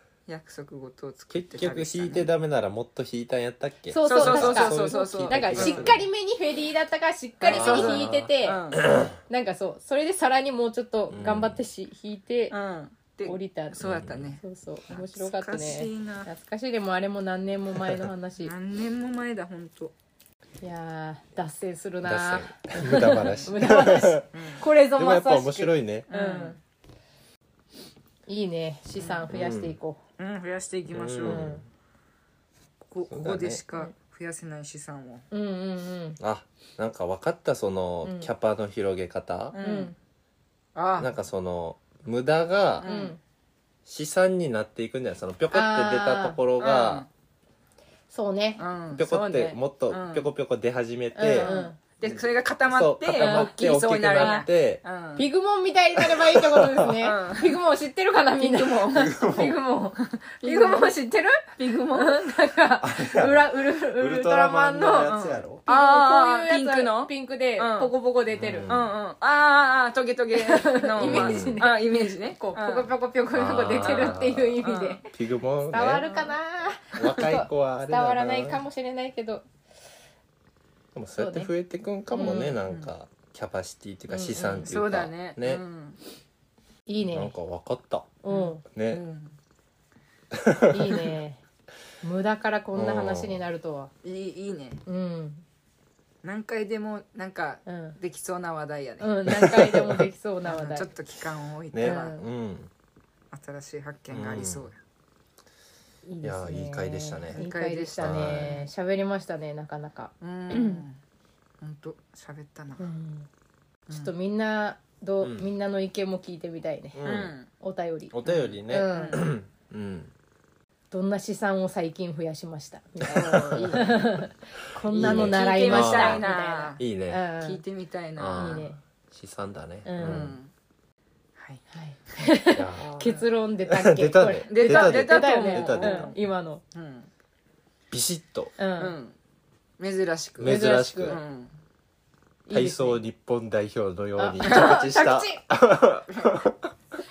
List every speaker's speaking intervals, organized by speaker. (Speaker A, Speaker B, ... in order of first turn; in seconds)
Speaker A: 0.3-2.3, 4.0-5.9, 7.4-8.8, 12.5-16.3, 18.4-19.9, 24.3-24.6, 26.1-26.6, 29.0-29.3, 30.2-31.4, 32.9-35.2, 39.5-39.9, 40.7-41.1, 42.8-43.2, 46.6-47.1, 48.6-50.2, 51.3-55.3, 57.0-57.5, 58.4-59.1, 60.0-62.3, 65.0-67.9, 68.7-72.9, 73.8-75.0, 76.0-76.3, 82.2-82.9, 84.7-86.0, 88.3-89.3, 94.0-94.8, 96.2-99.1, 100.5-102.2, 103.3-104.8, 107.3-108.7, 110.2-111.0, 111.6-112.8, 117.0-117.5, 118.2-119.2, 123.1-123.9, 124.9-126.8, 127.4-128.7, 130.0-130.5, 131.4-131.6, 132.8-133.2, 134.5-136.2, 136.7-137.1, 138.8-139.1, 139.8-141.5, 144.4-144.8, 146.1-146.4
Speaker B: 1.3-6.0, 7.4-9.1, 11.1-11.6, 13.8-14.3, 22.0-24.4, 24.9-26.1, 29.3-29.8, 30.9-31.6, 33.1-33.6, 36.2-39.5, 41.0-42.9, 43.9-47.0, 48.9-51.5, 52.0-54.8, 56.0-56.9, 58.9-59.6, 62.8-65.6, 68.3-68.9, 71.0-71.6, 73.3-74.6, 75.1-76.0, 77.0-78.6, 80.9-85.6, 87.1-89.0, 90.3-91.1, 92.7-93.4, 99.3-100.1, 101.7-102.7, 104.1-104.7, 106.2-107.4, 108.0-108.5, 115.2-115.5, 116.9-117.3, 118.1-120.1, 123.0-124.2, 125.0-126.2, 126.8-127.2, 128.2-130.4, 132.5-136.1, 137.9-138.6, 140.4-141.2, 142.5-146.7
Speaker C: 3.9-8.6, 9.3-12.5, 13.2-18.5, 20.6-26.6, 28.3-30.0, 31.2-31.6, 35.3-36.2, 38.0-38.3, 39.6-39.9, 42.8-43.2, 45.5-46.4, 48.1-48.6, 51.1-51.8, 53.2-53.5, 54.2-54.5, 55.1-65.1, 65.7-68.7, 70.3-75.0, 75.7-79.4, 81.2-81.5, 82.2-82.4, 84.1-84.8, 86.9-87.3, 88.2-88.6, 90.7-91.4, 92.0-93.9, 94.8-95.4, 97.7-98.0, 99.0-100.9, 101.8-102.2, 106.0-110.8, 112.8-113.3, 113.9-117.0, 117.6-119.2, 120.9-127.6, 128.3-128.8, 129.8-130.2, 131.7-136.6, 138.6-138.9, 140.4-141.2, 142.5-143.0, 144.2-145.4